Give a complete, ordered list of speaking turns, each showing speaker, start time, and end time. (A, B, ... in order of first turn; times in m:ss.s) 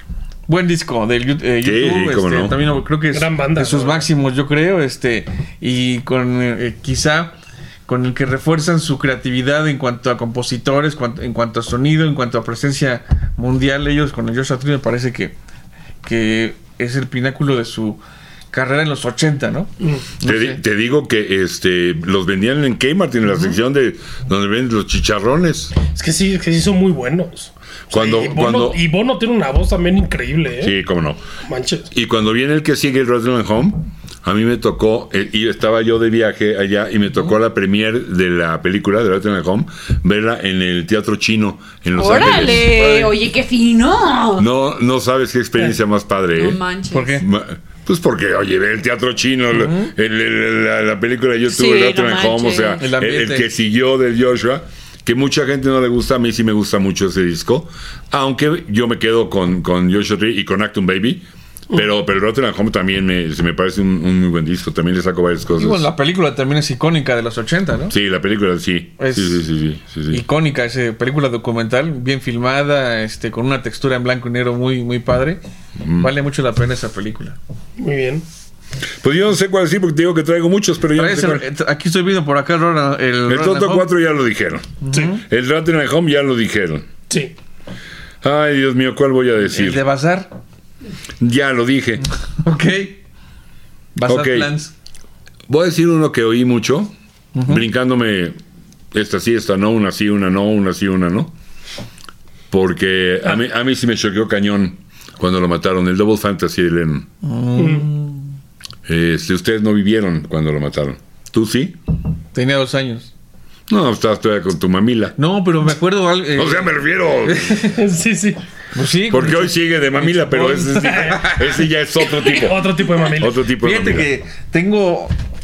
0:00.5-0:07.3 A
0:01.6-0:02.6 B
0:03.1-0:04.1 C
0:07.9-0:15.3 A
0:16.0-0:18.0 A
0:18.5-0:20.6 A
0:20.2-0:25.7 B
0:25.9-0:30.7 C
0:27.9-0:28.8 B
0:30.6-0:31.2 B
0:31.4-0:31.9 C
0:31.9-0:42.7 B
0:42.0-0:44.5 D
0:42.1-0:43.1 A
0:44.4-0:46.6 B
0:46.3-0:47.2 D
0:46.9-0:47.2 A
0:47.2-1:05.9 B
0:49.5-0:49.9 A
0:51.5-0:52.8 D
0:52.8-0:53.5 A
1:05.6-1:07.9 A
1:07.9-1:10.2 B
1:09.0-1:09.4 A
1:10.1-1:17.4 A
1:15.8-1:16.1 B
1:17.8-1:18.2 C
1:19.0-1:21.4 B
1:20.9-1:23.9 A
1:23.3-1:26.9 B
1:24.8-1:25.2 A
1:28.2-1:29.8 B
1:29.5-1:30.3 A
1:31.2-1:32.0 B
1:32.4-1:33.0 A
1:33.9-1:34.7 A
1:34.0-1:34.5 B
1:35.5-1:36.9 B
1:37.3-1:37.6 A
1:37.4-1:38.4 B
1:38.9-1:41.3 B
1:42.5-1:47.1 B
1:47.2-1:48.3 A
1:47.6-1:47.8 C
1:48.8-1:51.8 B
1:52.3-1:53.1 A
1:53.7-1:55.1 B
1:55.2-1:57.6 A
1:56.3-1:57.7 B
1:57.6-1:58.4 C
1:58.7-2:01.4 A
1:59.1-2:04.1 B
2:00.9-2:01.3 C
2:02.1-2:03.3 C
2:03.6-2:05.1 A